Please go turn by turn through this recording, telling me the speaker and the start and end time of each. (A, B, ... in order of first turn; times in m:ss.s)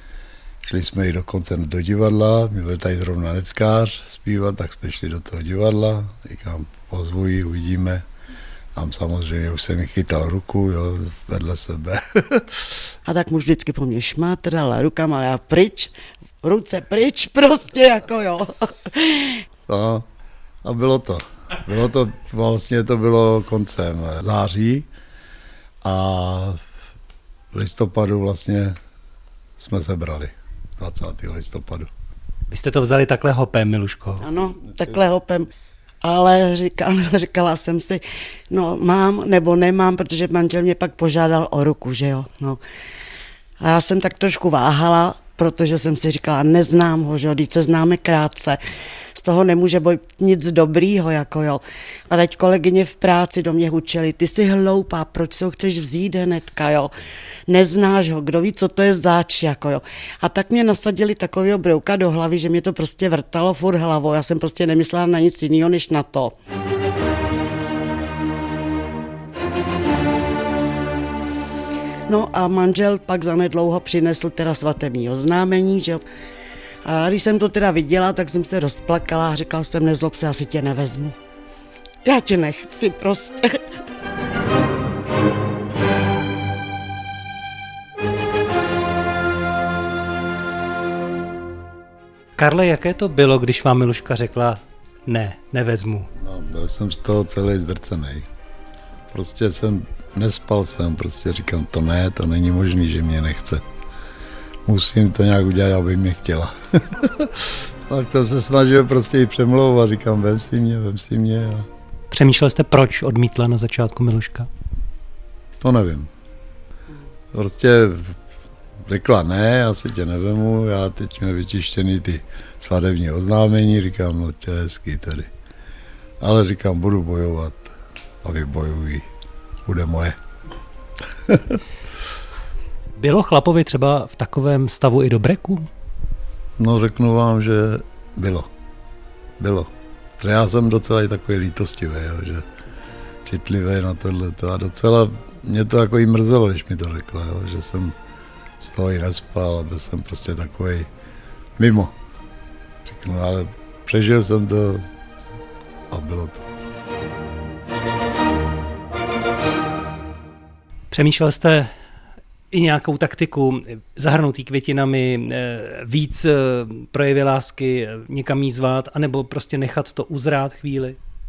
0:00.6-0:08.0 A
0:08.8-0:12.7 A
0:13.1-0:19.4 B
0:19.7-0:20.1 A
0:20.6-0:24.9 A
0:25.8-0:26.6 A
0:27.5-0:28.8 A
0:29.6-0:31.9 A
0:32.5-0:34.3 C
0:34.2-0:35.5 B
0:36.0-0:42.6 B
0:43.6-0:48.6 B
0:49.2-0:56.9 B
0:57.5-1:06.4 B
1:12.1-1:16.0 B
1:16.8-1:21.2 B
1:22.0-1:23.6 B
1:32.4-1:36.1 C
1:36.2-1:38.3 A
1:39.1-1:43.6 A
1:44.7-1:51.7 A
1:52.1-1:54.5 C
1:55.6-1:56.1 A
1:57.3-1:58.2 A
1:58.9-2:05.3 A
2:06.2-2:09.1 A
2:09.6-2:10.2 A
2:11.3-2:11.6 A
2:13.0-2:15.7 C
2:16.6-2:18.5 A
2:19.4-2:22.5 A
2:23.2-2:27.9 A
2:28.6-2:30.9 A
2:31.6-2:31.9 A
2:32.8-2:34.9 A
2:35.9-2:36.5 A
2:40.9-2:41.7 C
2:42.5-2:51.0 C